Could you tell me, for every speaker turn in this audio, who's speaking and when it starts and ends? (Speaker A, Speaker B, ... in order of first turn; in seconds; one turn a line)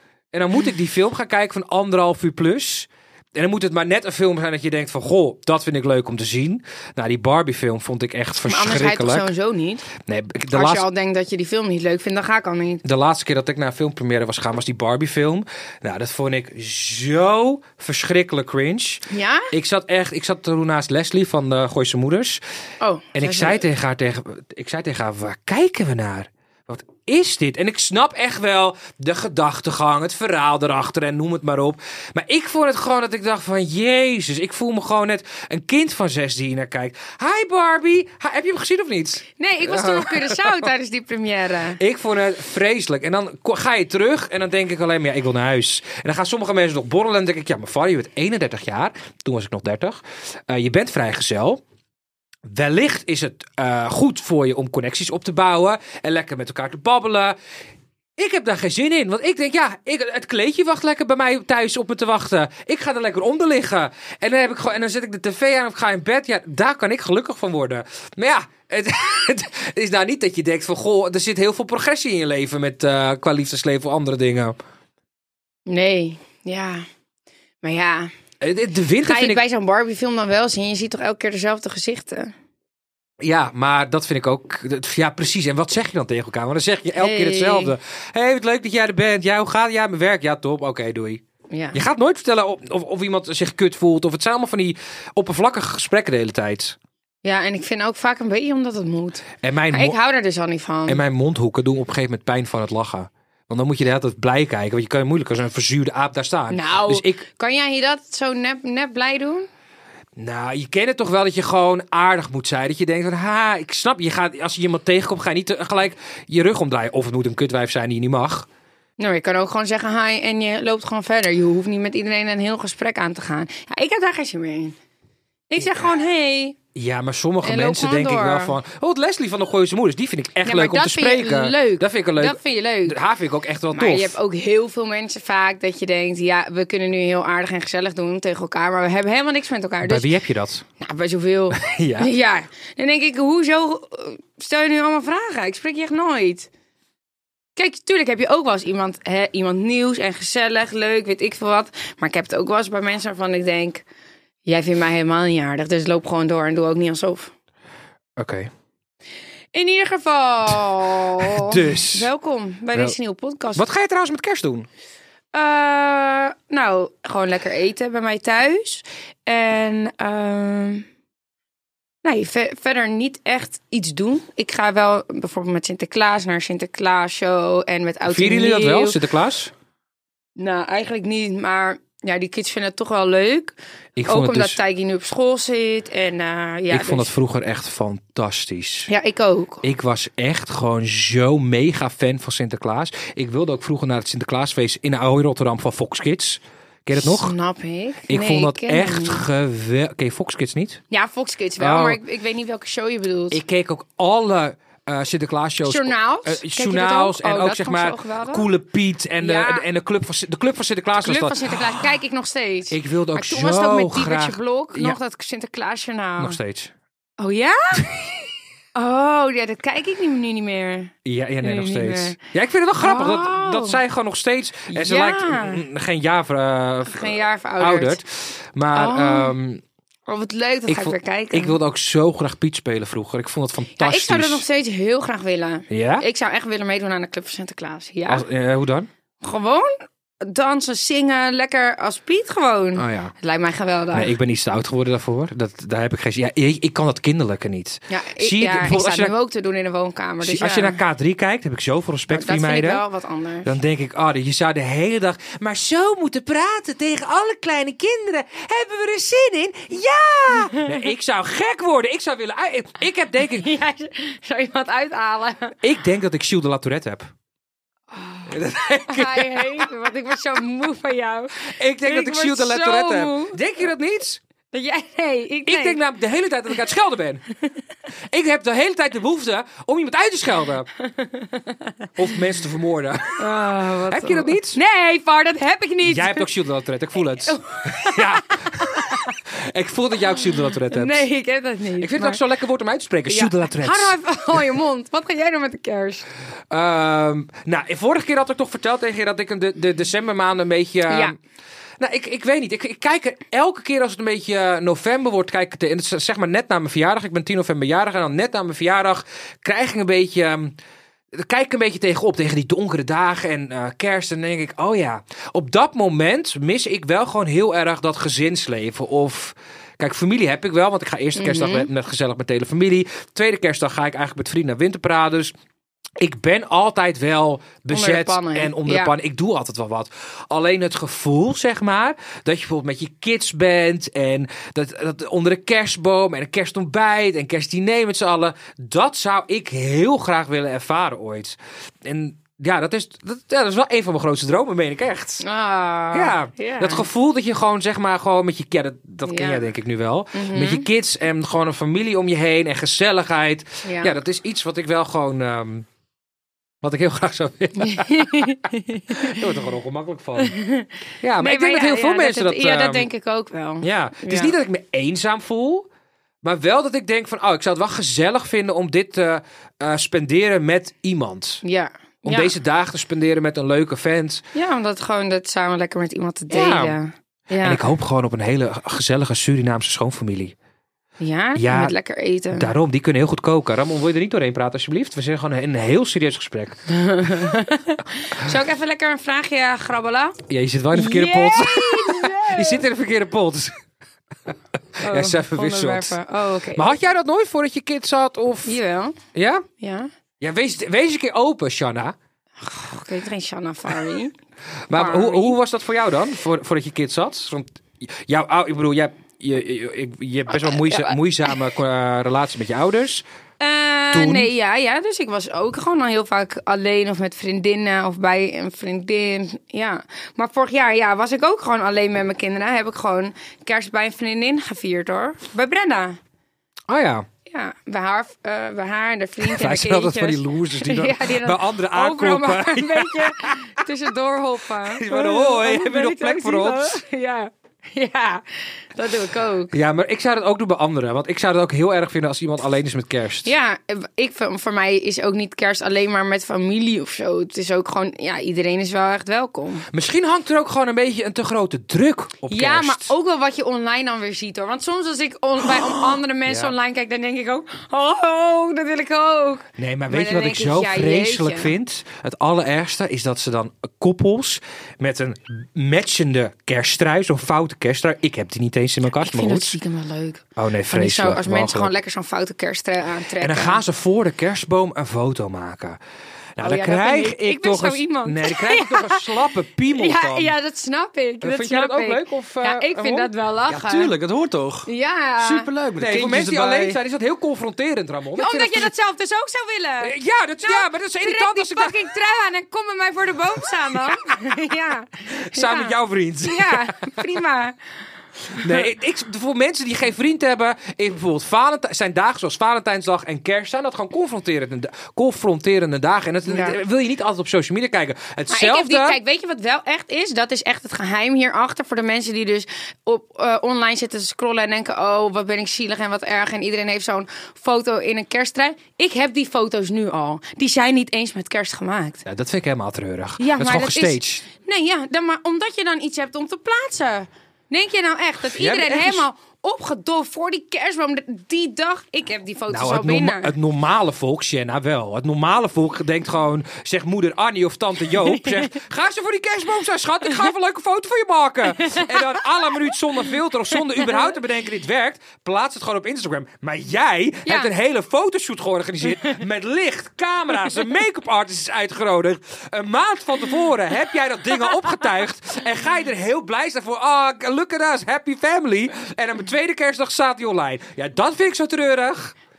Speaker A: 0.3-9.3
Speaker B: 8.5-9.9
Speaker A: 10.1-10.9
Speaker B: 10.5-12.8
Speaker A: 12.8-22.4
Speaker B: 19.1-19.5
Speaker B: 22.8-23.6
Speaker A: 23.1-40.7
Speaker B: 39.4-41.8
Speaker A: 41.8-51.6
Speaker A: 52.5-57.4
Speaker A: 58.2-74.6
Speaker B: 75.7-76.9
Speaker B: 77.6-78.1
Speaker A: 78.4-79.4
Speaker B: 79.0-82.3
Speaker A: 83.2-91.2
Speaker B: 87.0-87.8
Speaker B: 91.5-91.8
Speaker A: 91.7-96.8
Speaker B: 97.2-101.0
Speaker A: 99.4-100.0
Speaker A: 100.9-107.2
Speaker B: 106.5-109.5
Speaker A: 110.2-118.5
Speaker B: 119.0-124.8
Speaker B: 125.5-126.6
Speaker A: 126.8-134.2
Speaker B: 127.4-128.6
Speaker B: 130.4-133.0
Speaker B: 133.7-140.1
Speaker A: 139.8-140.7
Speaker B: 140.8-146.5
Speaker A: 141.5-142.1
Speaker B: 147.6-153.8
Speaker B: 154.4-157.3
Speaker A: 158.2-158.5
Speaker B: 159.5-163.7
Speaker A: 161.2-162.1
Speaker A: 163.6-164.7
Speaker B: 165.3-170.9
Speaker B: 172.0-179.0
Speaker A: 178.1-179.5
Speaker B: 180.4-183.5
Speaker A: 184.0-184.6
Speaker B: 184.1-187.1
Speaker A: 186.7-188.9
Speaker B: 188.9-189.6
Speaker A: 189.6-197.3
Speaker B: 197.0-199.2
Speaker A: 198.1-200.8
Speaker B: 200.9-203.4
Speaker A: 201.6-202.0
Speaker A: 203.3-211.8
Speaker B: 205.7-208.5
Speaker B: 209.2-209.7
Speaker B: 211.0-216.4
Speaker A: 212.7-215.0
Speaker A: 216.2-216.7
Speaker B: 217.2-222.2
Speaker A: 221.1-229.6
Speaker B: 222.8-223.8
Speaker B: 224.7-225.6
Speaker B: 226.8-228.0
Speaker B: 228.7-229.3
Speaker B: 230.1-231.6
Speaker A: 230.7-234.4
Speaker B: 233.8-238.2
Speaker A: 235.7-236.1
Speaker A: 238.1-238.9
Speaker B: 239.2-244.2
Speaker A: 242.8-243.1
Speaker A: 243.9-249.1
Speaker B: 247.9-250.8
Speaker A: 250.2-252.8
Speaker B: 252.1-253.5
Speaker A: 253.4-263.5
Speaker B: 260.4-260.7
Speaker B: 263.3-265.6
Speaker A: 265.6-267.1
Speaker B: 267.9-273.4
Speaker A: 268.3-269.7
Speaker A: 271.4-274.2
Speaker B: 274.5-275.8
Speaker A: 275.4-277.2
Speaker A: 278.1-280.7
Speaker B: 280.8-281.9
Speaker A: 282.0-284.6
Speaker B: 283.2-286.3
Speaker A: 285.8-291.1
Speaker B: 287.2-289.1
Speaker B: 290.7-292.2
Speaker A: 291.8-294.4
Speaker B: 293.1-296.1
Speaker A: 296.5-301.2
Speaker B: 300.9-301.1
Speaker A: 301.8-310.6
Speaker A: 311.1-325.3
Speaker B: 321.2-321.7
Speaker A: 326.0-345.2
Speaker B: 327.7-328.9
Speaker B: 345.2-346.9
Speaker A: 345.9-355.7
Speaker B: 349.1-349.4
Speaker B: 350.1-350.6
Speaker B: 353.6-353.9
Speaker A: 356.6-358.4
Speaker B: 357.6-359.2
Speaker A: 358.9-360.4
Speaker B: 360.2-364.4
Speaker A: 361.0-362.9
Speaker A: 363.6-365.7
Speaker A: 366.2-371.4
Speaker B: 371.4-372.3
Speaker A: 372.0-374.2
Speaker B: 374.4-377.6
Speaker A: 376.3-376.8
Speaker A: 377.4-380.4
Speaker B: 381.0-382.5
Speaker A: 381.4-381.8
Speaker A: 382.3-387.3
Speaker B: 386.7-390.2
Speaker A: 390.3-393.6
Speaker B: 390.7-392.6
Speaker A: 394.3-396.0
Speaker B: 394.8-396.8
Speaker A: 396.5-398.6
Speaker B: 398.4-399.0
Speaker A: 399.1-399.5
Speaker B: 399.6-399.9
Speaker A: 400.2-402.0
Speaker B: 402.4-404.2
Speaker A: 404.7-413.1
Speaker B: 404.7-405.4
Speaker B: 410.3-411.0
Speaker B: 413.4-426.0
Speaker A: 413.9-414.3
Speaker A: 426.7-427.1
Speaker B: 427.3-439.5
Speaker A: 429.2-433.6
Speaker A: 434.6-436.8
Speaker A: 439.5-443.3
Speaker B: 443.2-449.7
Speaker A: 449.7-452.9
Speaker B: 452.3-461.5
Speaker A: 456.3-456.5
Speaker A: 459.6-469.6
Speaker B: 469.0-473.6
Speaker A: 470.4-471.7
Speaker A: 473.2-475.8
Speaker A: 476.4-480.3
Speaker B: 476.4-479.1
Speaker B: 479.7-483.9
Speaker A: 481.2-483.1
Speaker C: 483.5-484.7
Speaker B: 484.7-485.5
Speaker C: 485.2-486.8
Speaker A: 485.8-488.7
Speaker B: 488.2-497.6
Speaker A: 489.8-491.8
Speaker A: 495.2-497.1
Speaker B: 498.3-498.7
Speaker A: 498.4-509.0
Speaker B: 506.3-506.6
Speaker B: 508.3-522.0
Speaker A: 522.1-524.2
Speaker B: 523.2-533.3
Speaker A: 528.3-529.0
Speaker A: 532.5-562.1
Speaker B: 538.1-538.5
Speaker B: 541.6-542.2
Speaker B: 543.8-544.1
Speaker B: 547.2-547.5